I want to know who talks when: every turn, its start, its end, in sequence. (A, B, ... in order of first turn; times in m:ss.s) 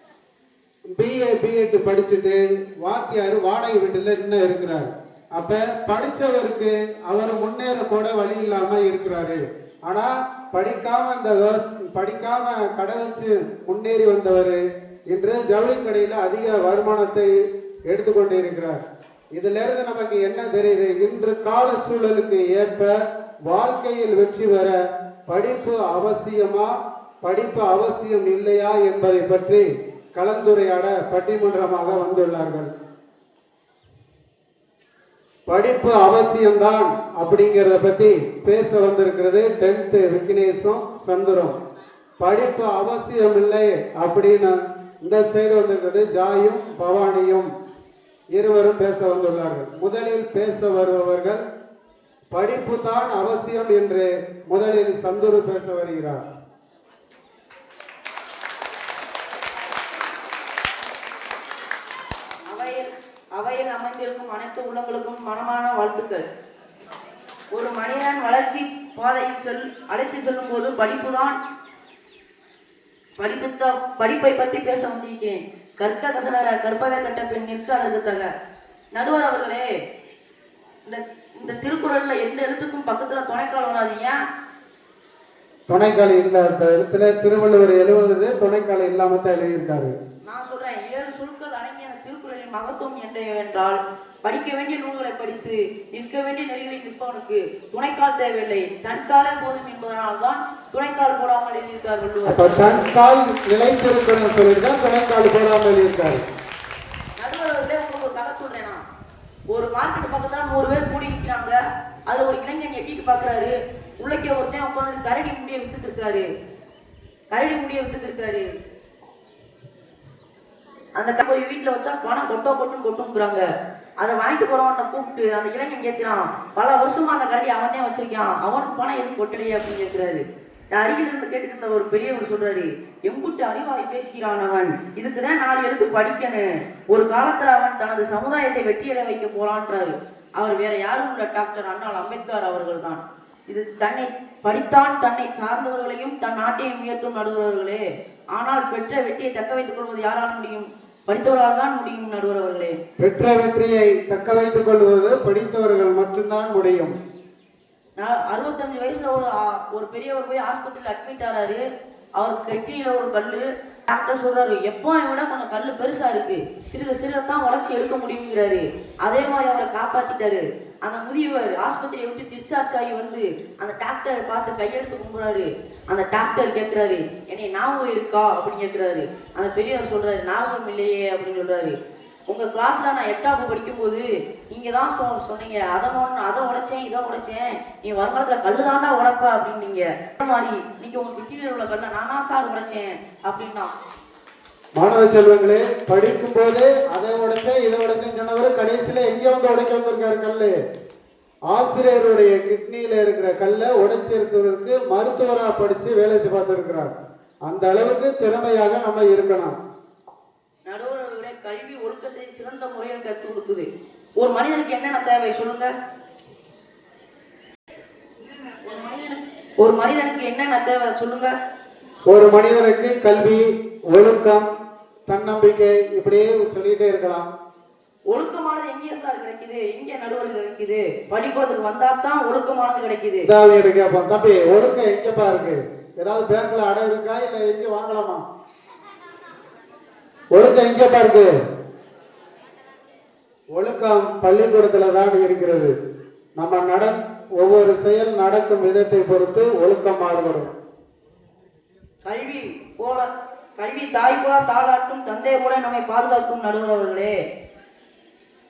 0:00.9-0:17.3 A
0:17.9-0:18.8 A
0:19.3-0:22.9 A
0:23.5-0:24.8 A
0:25.3-0:32.7 A
0:35.5-0:41.6 A
0:42.2-0:47.5 A
0:48.3-0:51.4 A
0:52.3-0:56.2 A
1:02.5-1:06.2 B
1:07.5-1:11.4 B
1:13.2-1:18.3 B
1:18.9-1:19.6 B
1:20.9-1:24.2 B
1:25.7-1:30.0 A
1:30.3-1:42.8 B
1:42.2-1:46.2 A
1:47.2-1:48.8 B
1:49.5-1:56.3 B
1:57.3-1:58.5 B
2:01.0-2:03.4 B
2:04.0-2:27.8 B
2:28.4-2:32.8 B
2:33.0-2:37.0 A
2:38.0-2:41.6 B
2:42.2-3:01.8 B
3:02.3-3:13.7 B
3:14.8-3:20.6 A
3:21.5-3:26.9 A
3:27.4-3:29.6 A
3:30.7-3:33.7 B
3:34.2-3:35.7 B
3:38.6-3:41.3 B
3:42.1-3:44.5 A
3:45.1-3:47.3 A
3:48.1-3:53.3 B
3:53.2-3:58.2 A
4:00.3-4:01.3 A
4:03.5-4:05.7 A
4:06.4-4:10.5 A
4:12.0-4:17.2 B